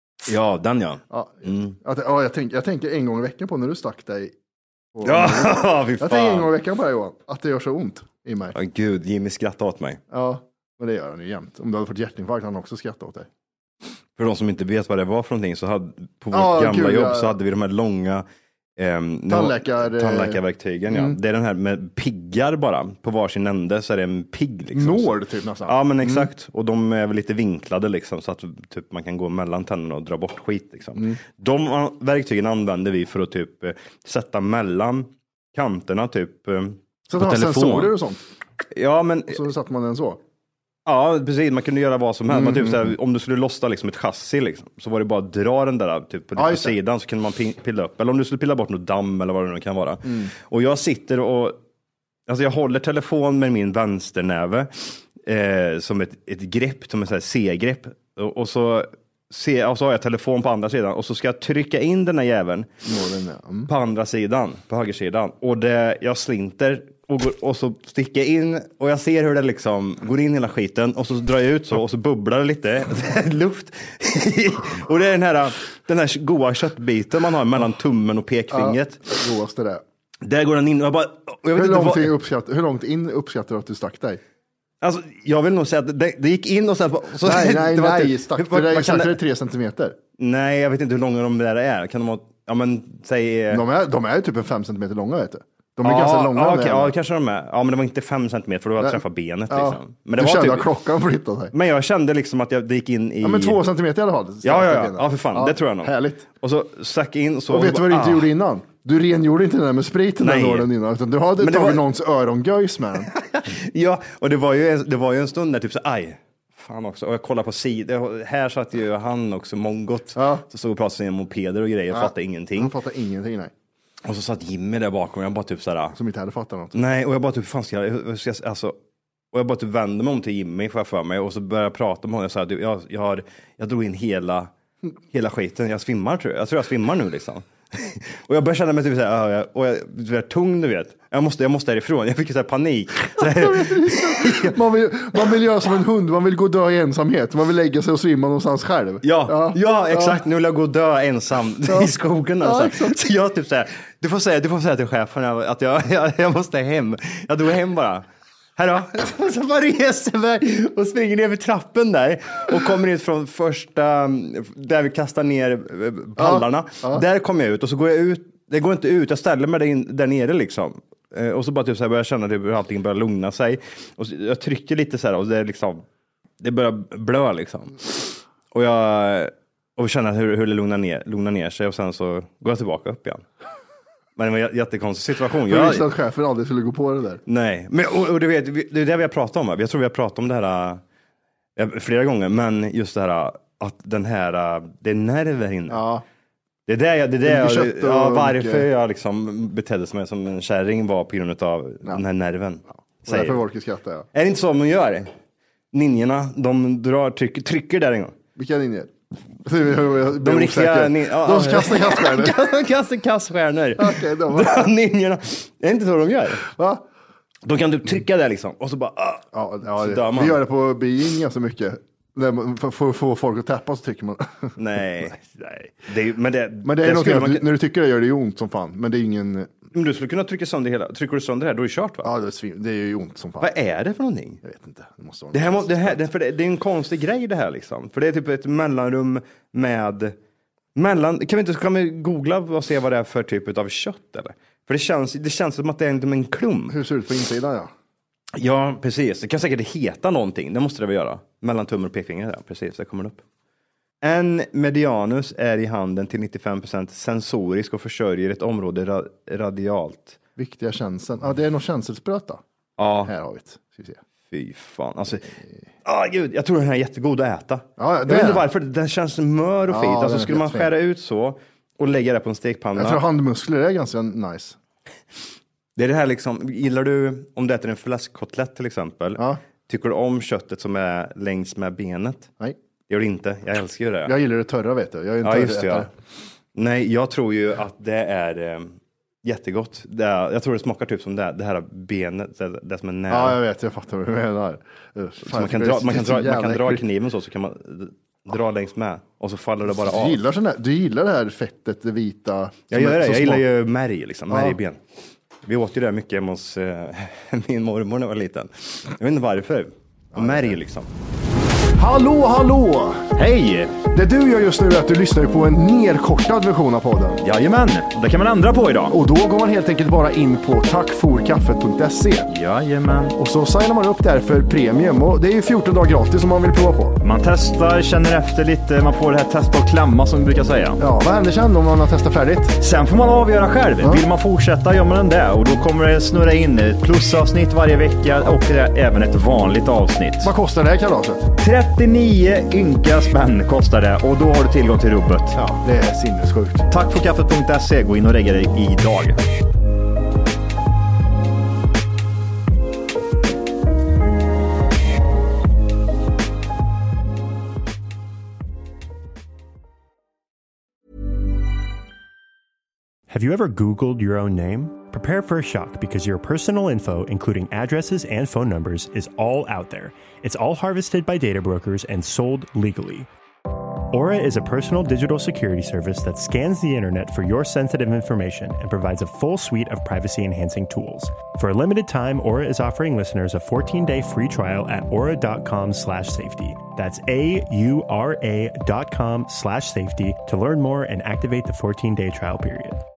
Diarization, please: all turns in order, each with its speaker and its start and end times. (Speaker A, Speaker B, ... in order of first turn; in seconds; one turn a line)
Speaker A: 0.2-1.7
Speaker B: 1.1-4.3
Speaker B: 4.9-8.6
Speaker A: 5.0-6.5
Speaker A: 8.5-10.0
Speaker B: 10.1-13.3
Speaker A: 14.2-18.2
Speaker B: 16.3-17.3
Speaker A: 18.8-25.1
Speaker B: 19.3-21.2
Speaker B: 24.7-26.3
Speaker A: 25.6-37.9
Speaker B: 37.1-38.2
Speaker A: 38.7-39.4
Speaker B: 39.3-40.2
Speaker A: 40.9-51.6
Speaker B: 42.3-42.9
Speaker B: 46.4-46.7
Speaker B: 50.0-50.3
Speaker A: 52.3-62.7
Speaker B: 62.9-63.7
Speaker A: 63.7-79.1
Speaker B: 78.5-79.8
Speaker A: 80.2-82.1
Speaker B: 81.5-84.2
Speaker A: 84.8-89.2
Speaker B: 87.2-90.0
Speaker A: 90.2-93.6
Speaker B: 93.5-96.9
Speaker A: 95.8-100.7
Speaker B: 98.8-101.5
Speaker A: 101.5-103.6
Speaker B: 103.2-106.3
Speaker A: 104.4-108.3
Speaker B: 107.5-113.1
Speaker A: 110.2-110.7
Speaker A: 111.4-111.8
Speaker A: 113.0-122.7
Speaker B: 120.2-120.4
Speaker B: 121.9-123.5
Speaker A: 124.0-126.0
Speaker B: 125.9-126.8
Speaker A: 126.7-128.8
Speaker A: 129.3-134.5
Speaker A: 135.1-144.6
Speaker B: 143.2-150.2
Speaker A: 149.0-158.0
Speaker B: 151.7-153.0
Speaker A: 158.6-175.8
Speaker B: 166.2-167.0
Speaker A: 176.4-183.2
Speaker A: 184.2-185.9
Speaker B: 185.5-187.2
Speaker A: 187.3-190.8
Speaker A: 191.6-195.8
Speaker B: 195.7-196.0
Speaker A: 196.7-203.4
Speaker B: 197.2-198.7
Speaker B: 203.0-204.1
Speaker A: 204.1-205.1
Speaker A: 205.7-208.2
Speaker B: 208.3-208.9
Speaker B: 209.4-212.5
Speaker A: 210.1-216.4
Speaker B: 213.8-214.7
Speaker B: 216.5-216.8
Speaker A: 217.4-220.4
Speaker B: 219.3-224.6
Speaker A: 224.6-227.4
Speaker B: 226.6-229.5
Speaker A: 229.7-232.1
Speaker B: 232.0-233.5
Speaker A: 233.4-234.4
Speaker B: 234.4-235.9
Speaker A: 235.3-240.2
Speaker A: 240.7-246.8
Speaker B: 246.7-247.7
Speaker A: 248.3-253.2
Speaker A: 254.0-260.2
Speaker B: 260.4-262.4
Speaker A: 262.8-263.1
Speaker B: 263.0-264.0
Speaker A: 264.3-273.0
Speaker B: 267.8-268.4
Speaker B: 269.7-270.7
Speaker B: 272.8-274.6
Speaker A: 275.8-282.3
Speaker A: 282.9-284.1
Speaker B: 284.1-285.9
Speaker A: 285.2-285.9
Speaker A: 286.5-293.4
Speaker B: 293.1-296.8
Speaker A: 295.2-300.2
Speaker B: 299.7-303.4
Speaker A: 302.7-304.8
Speaker B: 304.3-304.6
Speaker A: 305.4-310.9
Speaker B: 310.1-310.6
Speaker B: 311.8-313.1
Speaker C: 313.1-313.8
Speaker B: 313.9-317.2
Speaker C: 317.2-318.9
Speaker B: 318.9-322.3
Speaker C: 322.3-323.1
Speaker B: 323.2-327.0
Speaker C: 327.0-330.8
Speaker B: 330.8-332.6
Speaker C: 332.6-340.3
Speaker B: 340.2-341.3
Speaker C: 341.4-345.4
Speaker B: 345.3-346.6
Speaker C: 346.7-349.2
Speaker D: 363.1-373.1
Speaker D: 373.9-392.8